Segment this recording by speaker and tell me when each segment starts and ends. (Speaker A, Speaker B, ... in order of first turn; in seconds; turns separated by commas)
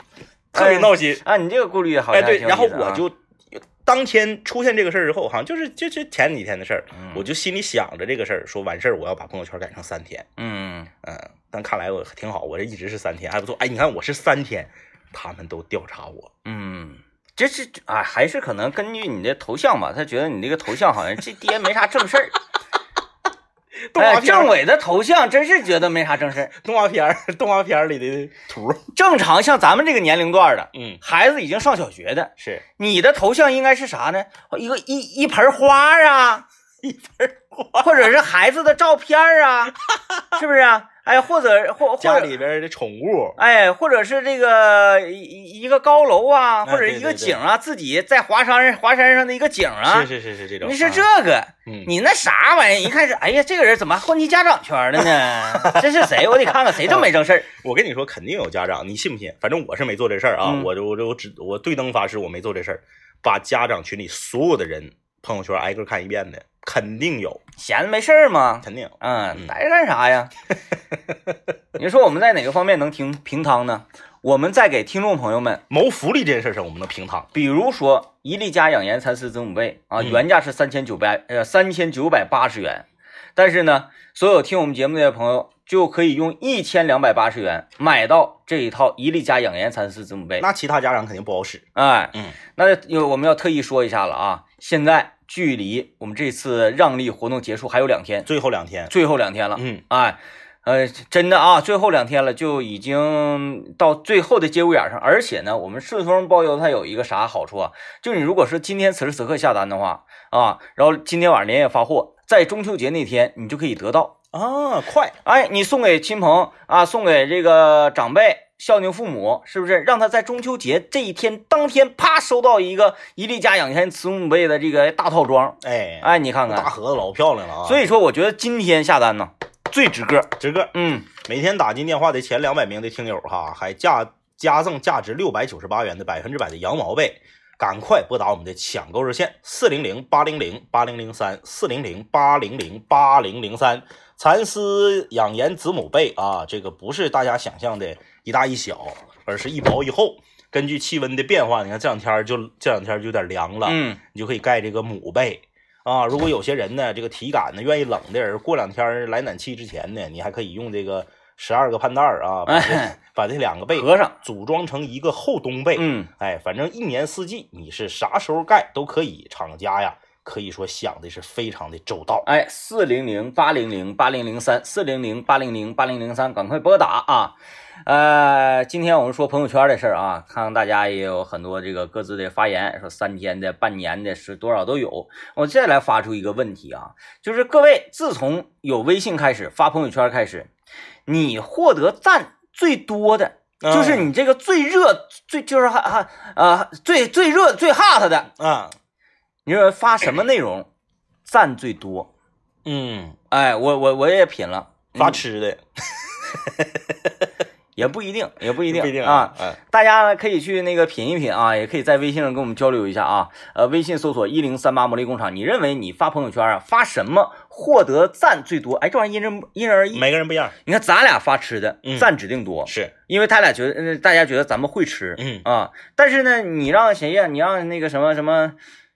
Speaker A: 0.5-1.2, Speaker B: 0.5-3.0, Speaker A: 2.1-10.3, Speaker B: 6.9-7.2, Speaker B: 10.4-10.9, Speaker A: 11.0-16.3, Speaker B: 16.4-22.4, Speaker A: 23.9-24.5, Speaker B: 23.9-26.5, Speaker A: 26.5-28.8, Speaker B: 28.9-36.4, Speaker A: 30.7-31.0, Speaker A: 32.4-32.6, Speaker A: 36.8-38.1, Speaker B: 37.8-39.8, Speaker A: 39.9-40.2, Speaker B: 40.3-42.4, Speaker A: 42.0-43.4, Speaker B: 43.4-50.1, Speaker A: 46.6-47.4, Speaker A: 49.9-51.0, Speaker B: 50.6-57.5, Speaker A: 51.6-51.9, Speaker A: 55.3-67.4, Speaker B: 67.6-70.3, Speaker A: 68.6-69.5, Speaker B: 71.8-75.6, Speaker A: 75.7-77.3, Speaker B: 77.3-90.5, Speaker A: 90.4-92.4, Speaker B: 91.7-98.3, Speaker A: 98.2-98.9, Speaker B: 98.9-114.1, Speaker A: 99.6-99.8, Speaker A: 114.3-115.1, Speaker B: 115.2-126.7, Speaker A: 125.6-127.8, Speaker B: 127.6-131.1, Speaker A: 130.4-172.2, Speaker B: 153.6-154.0, Speaker B: 162.5-162.9, Speaker B: 163.7-164.1, Speaker B: 165.7-166.1, Speaker B: 172.2-177.3, Speaker B: 177.9-190.5, Speaker B: 191.1-198.3, Speaker A: 193.6-194.1, Speaker A: 198.4-198.7, Speaker B: 199.4-200.7, Speaker B: 201.2-202.1, Speaker A: 202.6-203.2, Speaker B: 203.3-205.2, Speaker A: 204.9-207.3, Speaker B: 207.8-220.1, Speaker A: 208.6-209.6, Speaker A: 219.9-220.6, Speaker B: 220.6-228.6, Speaker A: 221.8-222.1, Speaker A: 222.7-222.9, Speaker A: 225.2-225.4